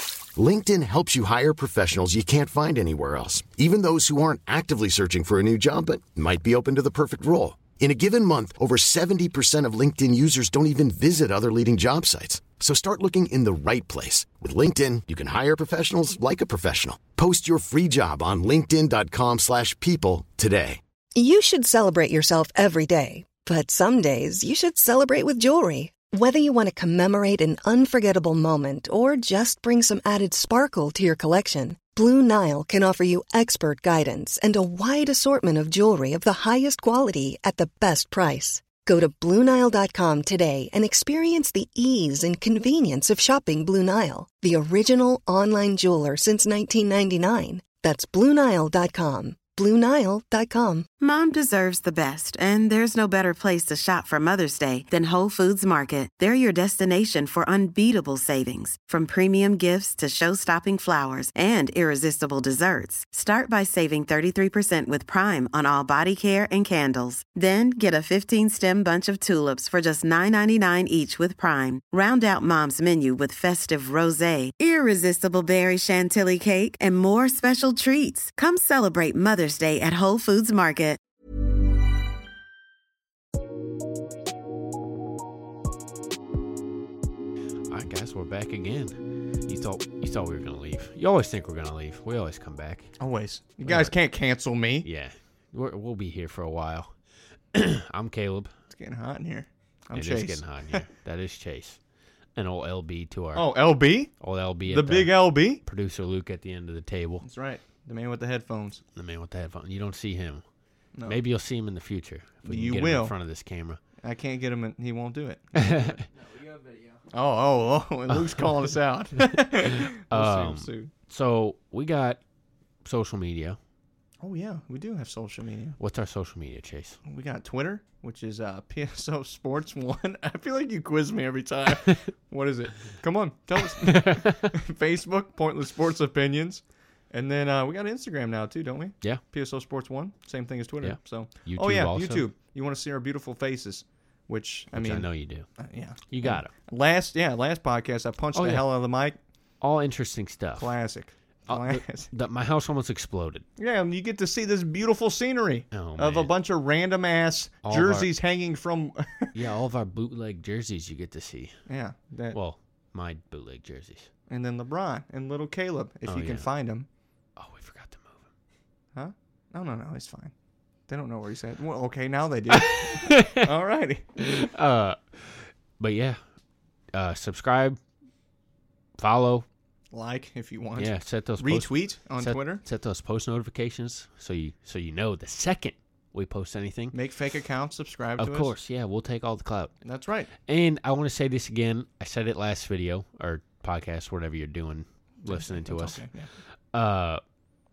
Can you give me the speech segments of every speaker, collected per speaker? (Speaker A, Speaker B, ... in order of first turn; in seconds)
Speaker A: 0.3-20.8
Speaker B: 21.1-50.9
Speaker C: 51.0-81.0
Speaker D: 87.7-92.9, 93.6-93.9, 94.8-96.9, 97.5-98.5, 100.0-101.8, 102.4-103.5, 104.2-107.3, 109.0-110.4, 111.0-113.8, 115.5-116.0, 118.1-118.5, 119.6-122.2, 122.8-123.6, 125.8-127.0, 133.8-134.4, 140.8-142.2, 144.7-145.5, 146.1-146.5, 148.3-148.7, 149.6-150.7, 151.5-153.5, 155.7-156.3, 157.6-158.1, 159.3-161.5, 162.3-164.1, 166.1-166.5, 167.4-168.3, 172.5-173.4, 174.2-176.2, 176.9-177.8, 179.0-179.5, 180.8-187.0, 188.2-189.7, 190.5-196.1, 196.7-197.2
Speaker E: 93.0-94.9, 98.7-100.8, 103.3-104.1, 104.7-105.6, 107.2-108.8, 112.5-113.1, 114.0-116.0, 117.1-120.9, 124.2-125.8, 127.1-145.1, 145.6-149.2, 150.6-152.1, 153.6-159.4, 161.7-162.4, 164.3-166.9, 168.9-170.3, 170.9-174.1, 179.9-182.6, 186.9-188.5, 189.8-190.3, 195.3-196.3